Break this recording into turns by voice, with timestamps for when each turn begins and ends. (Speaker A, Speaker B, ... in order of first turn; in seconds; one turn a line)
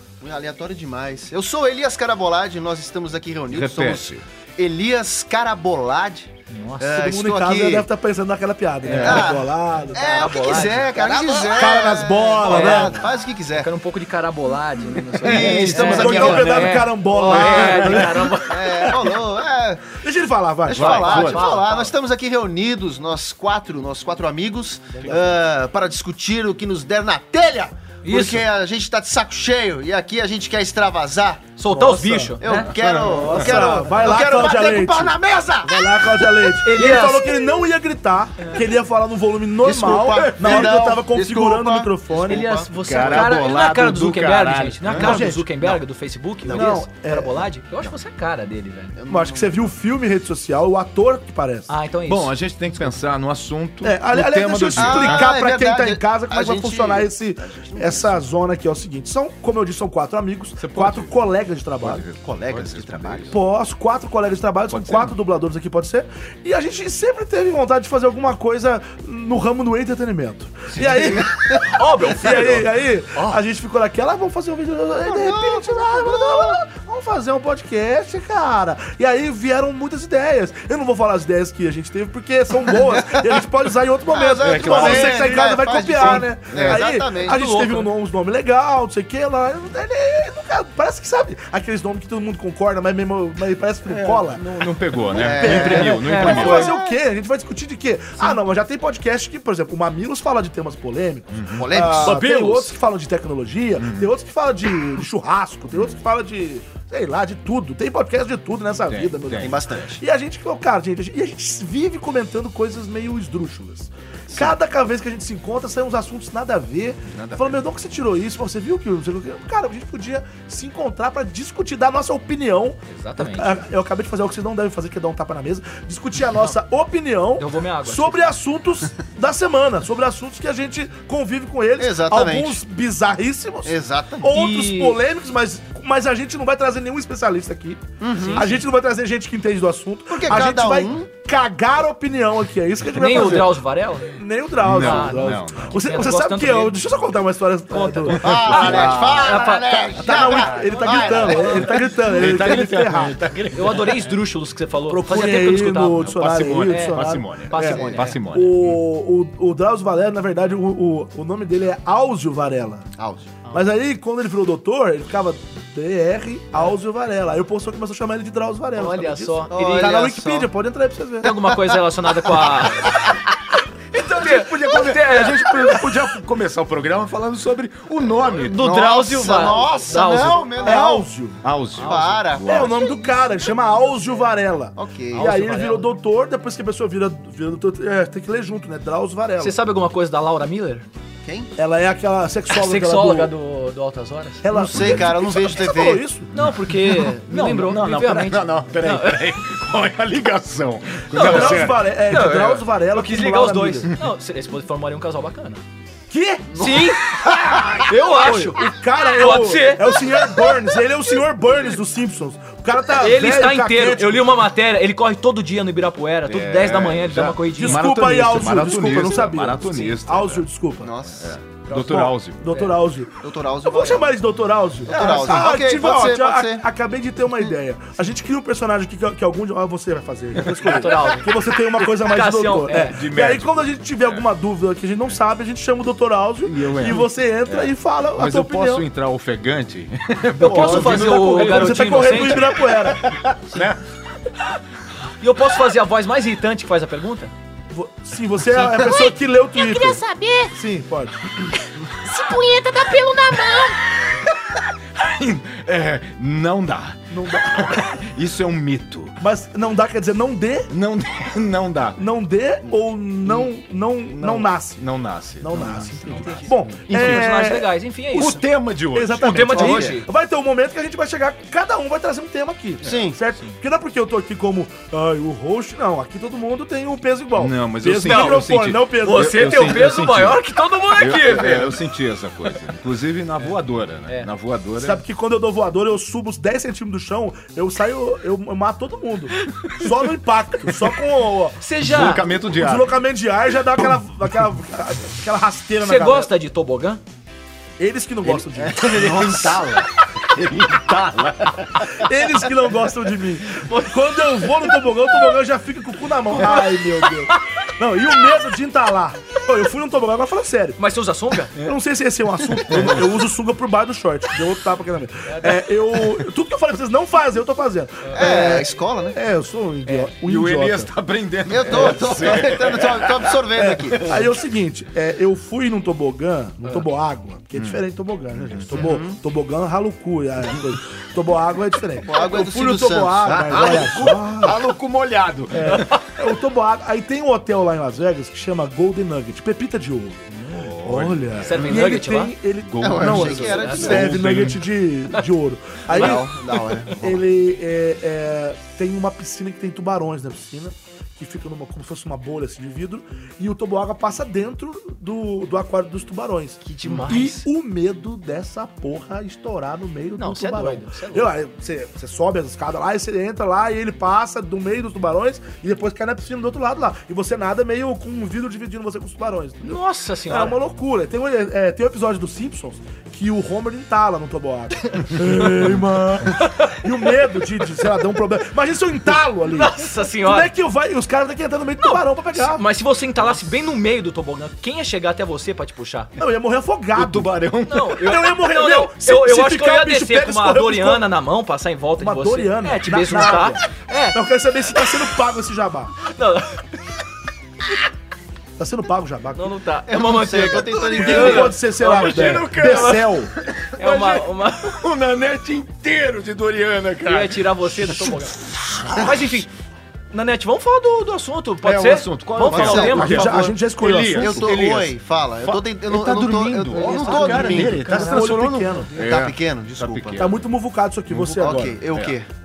Speaker A: 0.2-7.9
Speaker B: 3.5-4.2
Speaker C: 6.5-7.1
Speaker D: 7.0-10.6
Speaker C: 8.8-11.4
Speaker B: 8.9-9.3
Speaker A: 8.9-13.7
Speaker D: 11.3-13.1
Speaker C: 12.4-13.0
Speaker C: 13.5-19.1
Speaker B: 14.8-16.7
Speaker A: 15.2-17.9
Speaker D: 15.6-18.4
Speaker B: 17.3-18.2
Speaker A: 18.4-20.0
Speaker D: 20.0-21.3
Speaker A: 20.6-31.5
Speaker B: 20.7-21.6
Speaker C: 20.9-21.9
Speaker D: 25.0-25.3
Speaker C: 28.0-28.4
Speaker C: 31.6-32.7
Speaker D: 31.7-32.4
Speaker A: 32.4-36.4
Speaker B: 32.5-33.8
Speaker D: 33.0-42.5
Speaker C: 36.6-37.4
Speaker C: 38.4-38.6
Speaker A: 39.6-43.2
Speaker B: 40.2-40.7
Speaker C: 42.3-49.0
Speaker B: 42.8-45.2
Speaker D: 44.9-45.5
Speaker A: 45.1-45.7
Speaker A: 46.4-46.9
Speaker D: 46.5-47.5
Speaker A: 48.9-49.7
Speaker D: 49.1-51.7
Speaker C: 51.7-52.4
Speaker B: 52.0-55.3
Speaker D: 53.8-62.0
Speaker A: 54.8-58.2
Speaker B: 60.6-61.2
Speaker B: 61.8-63.4
Speaker A: 62.2-63.3
Speaker D: 63.3-94.5
Speaker B: 64.7-65.2
Speaker B: 70.7-71.2
Speaker A: 70.8-71.7
Speaker C: 71.2-72.7
Speaker A: 75.0-76.6
Speaker A: 82.8-83.2
Speaker A: 84.0-87.4
Speaker B: 84.4-85.3
Speaker B: 86.5-86.8
Speaker C: 87.1-87.9
Speaker C: 93.9-94.3
Speaker B: 94.3-96.8
Speaker D: 95.1-148.3
Speaker A: 95.1-97.0
Speaker C: 95.7-96.8
Speaker B: 101.3-101.7
Speaker A: 101.5-102.2
Speaker C: 102.0-102.8
Speaker B: 103.8-104.1
Speaker B: 108.8-109.8
Speaker A: 109.4-110.0
Speaker B: 117.1-117.7
Speaker C: 122.9-123.6
Speaker C: 127.4-128.3
Speaker A: 131.8-132.6
Speaker A: 133.6-134.2
Speaker C: 134.3-135.0
Speaker A: 138.0-138.6
Speaker C: 138.1-138.6
Speaker A: 140.1-141.1
Speaker C: 142.9-146.9
Speaker B: 143.1-143.5
Speaker B: 144.6-145.8
Speaker C: 147.7-150.1
Speaker A: 148.1-151.9
Speaker B: 148.1-154.2
Speaker D: 150.0-153.2
Speaker C: 150.9-151.7
Speaker C: 153.5-158.2
Speaker D: 154.9-162.9
Speaker B: 156.1-158.8
Speaker A: 163.0-163.4
Speaker D: 163.5-171.3
Speaker C: 168.8-170.0
Speaker A: 169.5-170.5
Speaker C: 171.2-173.2
Speaker C: 173.9-176.0
Speaker B: 173.9-178.8
Speaker C: 178.4-180.8
Speaker A: 178.5-181.1
Speaker D: 180.6-181.4
Speaker B: 181.4-182.8
Speaker C: 181.8-182.1
Speaker A: 181.8-183.4
Speaker D: 182.4-189.6
Speaker A: 184.8-185.3
Speaker C: 185.1-185.9
Speaker C: 189.4-190.9
Speaker A: 191.2-191.5
Speaker D: 191.6-193.3
Speaker C: 192.5-194.5
Speaker D: 194.4-196.3
Speaker A: 194.5-196.1
Speaker C: 196.3-199.2
Speaker B: 196.3-201.9
Speaker C: 201.1-205.6
Speaker D: 201.1-203.9
Speaker D: 206.1-206.6
Speaker C: 206.5-207.2
Speaker B: 207.1-207.8
Speaker C: 207.8-210.0
Speaker D: 208.1-214.4
Speaker C: 213.0-217.9
Speaker B: 216.2-220.5
Speaker D: 217.6-220.9
Speaker A: 220.8-221.3
Speaker B: 221.2-222.6
Speaker D: 221.7-238.8
Speaker C: 222.5-222.8
Speaker A: 223.2-224.2
Speaker A: 224.8-226.6
Speaker B: 230.3-231.0
Speaker C: 230.6-232.9
Speaker B: 232.9-234.3
Speaker B: 236.4-243.8
Speaker C: 240.4-242.6
Speaker D: 240.4-243.0
Speaker C: 245.2-247.3
Speaker D: 247.7-251.2
Speaker E: 248.6-250.5
Speaker E: 251.8-253.9
Speaker B: 254.9-259.2
Speaker D: 257.1-257.9
Speaker D: 259.2-260.7
Speaker B: 260.7-262.0
Speaker D: 262.0-264.9
Speaker B: 263.2-263.5
Speaker B: 264.0-267.6
Speaker D: 265.4-267.7
Speaker C: 266.1-268.4
Speaker B: 268.1-269.7
Speaker D: 268.9-280.0
Speaker C: 269.2-270.1
Speaker A: 269.5-270.0
Speaker A: 272.8-273.2
Speaker B: 272.8-273.1
Speaker B: 277.3-285.0
Speaker C: 278.0-278.5
Speaker C: 279.0-281.8
Speaker D: 284.8-291.6
Speaker C: 291.6-292.2
Speaker B: 291.8-293.0
Speaker D: 292.2-296.3
Speaker B: 293.8-294.0
Speaker C: 295.8-297.0
Speaker D: 297.8-299.6
Speaker B: 298.2-302.1
Speaker A: 298.6-299.4
Speaker D: 301.9-310.8
Speaker C: 303.4-304.8
Speaker C: 306.4-306.8
Speaker C: 310.8-311.6
Speaker D: 311.6-320.9
Speaker B: 312.7-313.1
Speaker C: 315.2-315.6
Speaker C: 318.0-318.6
Speaker A: 318.1-319.2
Speaker C: 319.9-320.1
Speaker B: 320.2-323.4
Speaker A: 321.5-324.2
Speaker D: 321.7-322.0
Speaker D: 323.6-334.6
Speaker B: 327.6-327.8
Speaker B: 328.4-328.8
Speaker A: 328.7-329.2
Speaker A: 332.0-334.2
Speaker B: 333.5-336.0
Speaker D: 335.5-346.2
Speaker C: 335.6-336.0
Speaker B: 340.5-342.0
Speaker C: 341.4-342.3
Speaker A: 341.5-341.9
Speaker B: 342.6-344.6
Speaker A: 342.8-344.3
Speaker C: 343.3-344.0
Speaker A: 345.9-347.2
Speaker C: 345.9-346.9
Speaker D: 346.9-382.6
Speaker C: 356.6-357.4
Speaker C: 360.2-361.3
Speaker C: 369.6-370.6
Speaker C: 376.4-376.8
Speaker C: 379.4-380.5
Speaker C: 381.8-386.1
Speaker D: 386.2-387.3
Speaker B: 386.9-388.0
Speaker C: 387.7-394.2
Speaker D: 388.0-391.1
Speaker D: 392.0-395.9
Speaker C: 394.7-395.1
Speaker C: 396.0-396.7
Speaker D: 398.6-399.5
Speaker C: 399.3-403.1
Speaker A: 399.9-401.6
Speaker B: 400.7-409.3
Speaker D: 400.9-403.3
Speaker C: 403.8-404.8
Speaker C: 407.1-409.5
Speaker C: 410.1-413.5
Speaker B: 411.6-420.4
Speaker A: 412.4-413.6
Speaker D: 412.7-414.6
Speaker A: 414.1-418.1
Speaker C: 416.9-419.2
Speaker D: 417.2-418.9
Speaker A: 419.0-420.4
Speaker D: 420.2-421.8
Speaker B: 421.1-422.2
Speaker A: 421.3-422.3